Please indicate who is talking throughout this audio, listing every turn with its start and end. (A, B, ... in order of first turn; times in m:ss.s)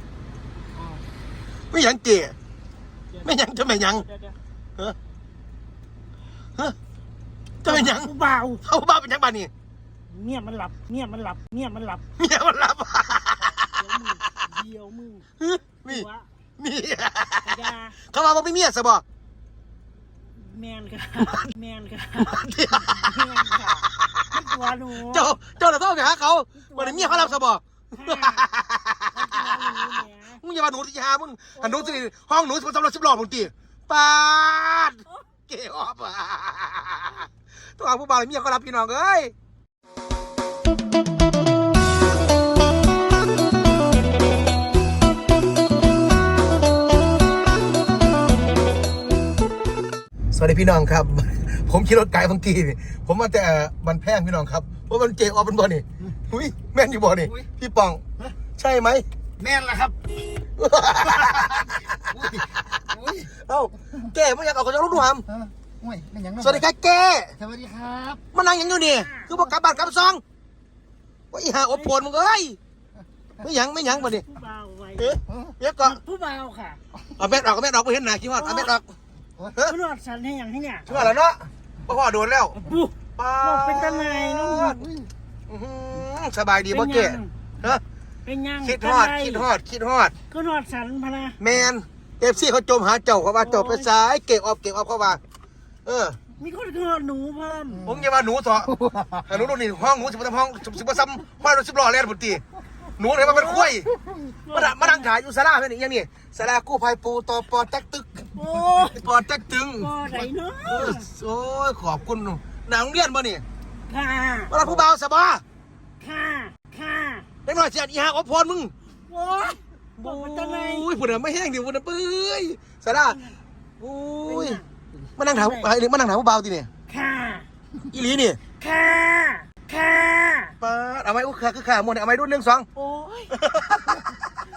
0:00.7-0:01.0 A
0:01.7-0:02.4 B
0:03.1-0:04.4 A
0:03.2-0:04.1 B
0:07.6-0:08.1 B
0:07.6-0:08.6 A
0:08.6-0:09.5 B
0:10.1-0:12.0 A
0:12.2-0:13.8 B
0:13.5-0:15.3 A
0:15.4-0:16.1 B
0:15.8-0:16.3 A
0:16.6-0:19.0 B
0:17.4-0:18.0 A
0:20.3-0:25.4 A
0:22.2-0:24.5 B
0:25.0-0:39.3 B
0:26.6-0:27.4 A
0:27.9-0:28.5 A
0:29.1-0:30.4 A
0:31.6-0:32.0 A
0:50.3-0:58.0 B
0:58.6-0:59.1 B
0:59.4-1:00.0 C
1:00.6-1:05.3 B
1:05.8-1:06.4 C
1:06.3-1:07.4 B
1:07.5-1:08.2 C
1:08.3-1:10.2 B
1:08.5-1:10.1 A
1:11.3-1:12.6 B
1:11.7-1:12.0 A
1:13.4-1:14.3 B
1:13.8-1:15.2 A
1:15.0-1:16.0 B
1:15.8-1:16.8 A
1:17.2-1:19.8 B
1:18.4-1:18.7 A
1:19.6-1:21.0 A
1:20.9-1:22.6 B
1:22.5-1:25.0 A
1:23.2-1:24.8 B
1:25.5-1:27.8 B
1:26.7-1:27.3 A
1:28.3-1:29.5 A
1:28.6-1:30.2 B
1:30.3-1:31.4 A
1:31.4-1:35.2 B
1:33.4-1:33.9 A
1:35.8-1:36.2 B
1:36.4-1:37.9 A
1:37.8-1:42.4 B
1:43.0-1:44.0 B
1:43.2-1:43.7 A
1:44.4-1:45.1 A
1:44.5-1:48.3 B
1:48.3-1:49.0 A
1:48.9-1:49.9 B
1:49.8-1:51.1 A
1:50.6-1:53.4 B
1:53.9-1:54.5 A
1:54.5-1:55.4 B
1:56.0-1:57.3 A
1:57.4-1:58.7 B
1:59.1-2:00.9 A
2:00.0-2:03.2 B
2:02.9-2:03.4 A
2:03.8-2:04.6 B
2:04.3-2:04.7 A
2:05.2-2:06.7 B
2:05.3-2:05.7 A
2:06.9-2:07.5 A
2:07.9-2:08.4 B
2:08.6-2:10.6 A
2:10.6-2:12.7 B
2:12.8-2:13.4 A
2:13.3-2:14.2 B